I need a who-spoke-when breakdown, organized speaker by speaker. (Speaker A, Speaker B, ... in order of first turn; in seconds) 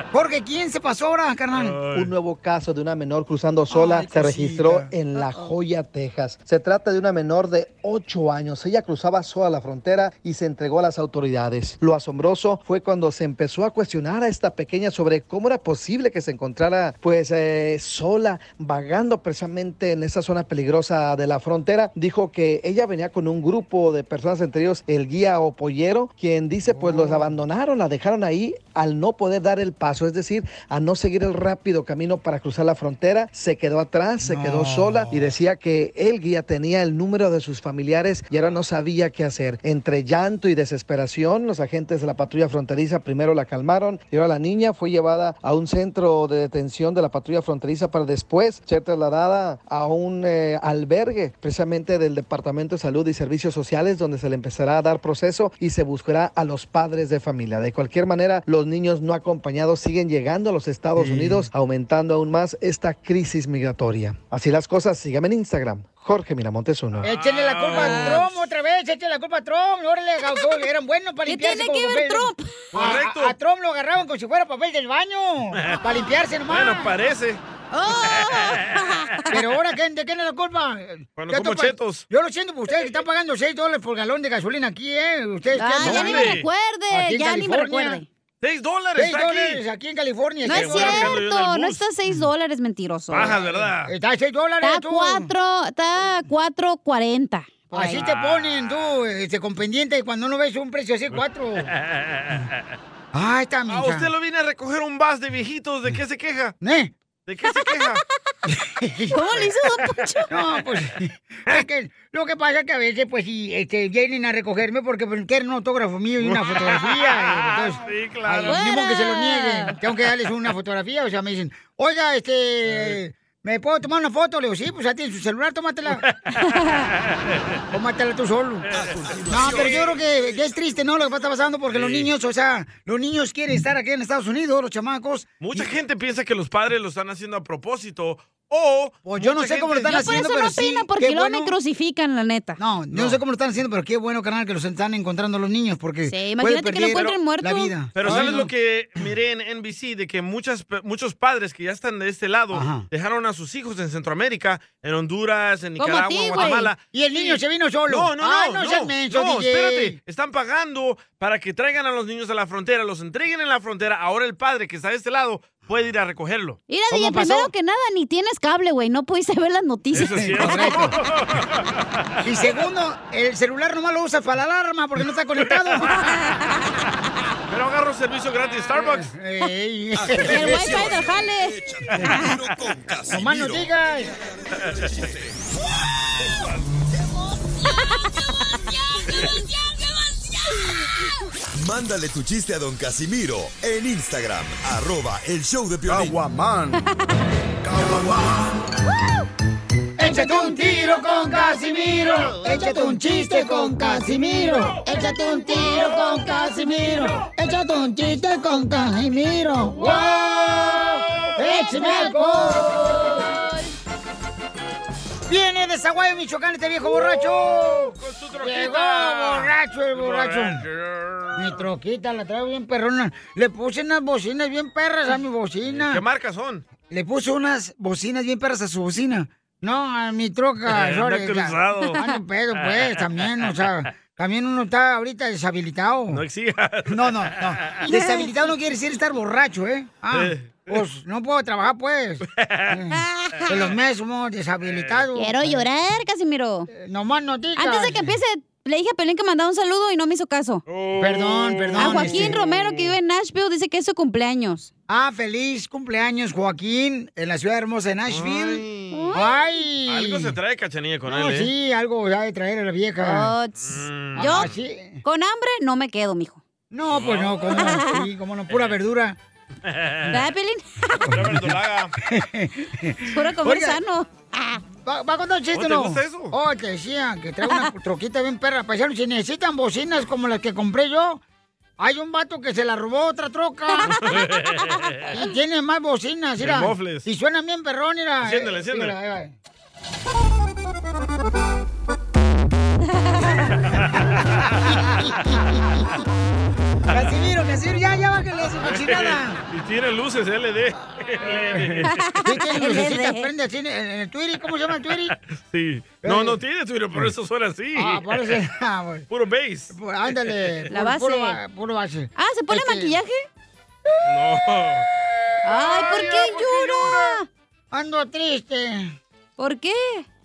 Speaker A: 0.1-1.9, 3.7-4.9, 26.7-27.4, 34.2-35.4, 67.0-76.9, 79.3-88.0, 89.0-91.1, 93.4-95.3, 97.7-101.7, 103.1-104.1, 106.6-106.9, 108.5-109.4, 110.3-126.0, 127.7-128.7, 129.3-135.7, 139.1-141.5, 142.6-148.5, 152.5-152.8, 156.9-160.0, 166.9-167.5, 170.2-171.0, 172.2-175.9, 178.7-180.8, 183.1-184.1, 200.0-213.1, 215.3-220.6, 221.4-226.0, 226.9-236.2, 236.9-245.6, 246.7-248.1, 251.0-252.4, 254.9-260.3, 261.1-263.3, 264.2-265.0, 266.7-269.2, 271.1-273.8, 274.9-281.2, 281.8-283.9, 285.1-289.3, 294.7-295.8, 296.9-299.4, 301.3-305.1, 306.0-306.4, 307.8-309.1, 309.7-312.9, 317.7-318.9
Speaker B: 1.5-2.1, 67.0-68.3, 72.7-73.3, 76.5-77.4, 78.0-78.8, 81.2-82.0, 85.8-86.5, 88.4-89.6, 90.5-91.8, 93.1-93.9, 98.0-99.0, 101.1-102.5, 103.7-106.5, 107.3-108.0, 116.2-118.6, 122.7-123.0, 125.9-126.2, 127.0-127.6, 128.7-130.0, 131.7-132.1, 135.4-140.1, 142.9-143.2, 147.9-166.6, 169.9-171.8, 177.5-179.1, 218.0-221.6, 225.7-226.6, 230.7-232.0, 232.5-233.6, 236.1-237.8, 240.1-240.8, 242.4-242.7, 243.5-243.7, 244.6-245.0, 250.7-252.7, 258.1-259.1, 259.9-261.5, 263.6-264.6, 266.9-267.7, 268.5-268.8, 269.6-270.3, 271.1-271.9, 275.5-276.4, 283.9-285.1, 286.4-287.1, 288.2-288.9, 298.6-302.1, 305.3-308.4, 309.1-310.7, 314.1-314.9
Speaker C: 1.9-67.1
Speaker D: 5.2-5.5, 67.7-68.3, 71.3-72.5, 77.7-79.3, 85.5-88.1, 90.4-93.4, 94.6-98.0, 109.1-110.3, 118.5-119.7, 126.4-126.8, 139.9-142.6, 146.1-148.4, 155.8-156.7, 166.7-170.7, 175.9-176.6, 180.2-182.3, 205.5-206.4, 211.4-213.6, 237.9-238.3, 245.1-246.7, 247.6-250.6, 251.8-254.7, 258.9-259.3, 263.0-264.5, 265.0-266.4, 267.6-268.0, 270.1-271.1, 273.1-274.6, 283.8-284.2, 293.1-293.5, 301.9-303.3, 310.7-311.4, 312.2-313.3, 315.4-317.3, 319.4-320.1
Speaker E: 128.7-129.9, 180.0-185.3, 191.6-196.2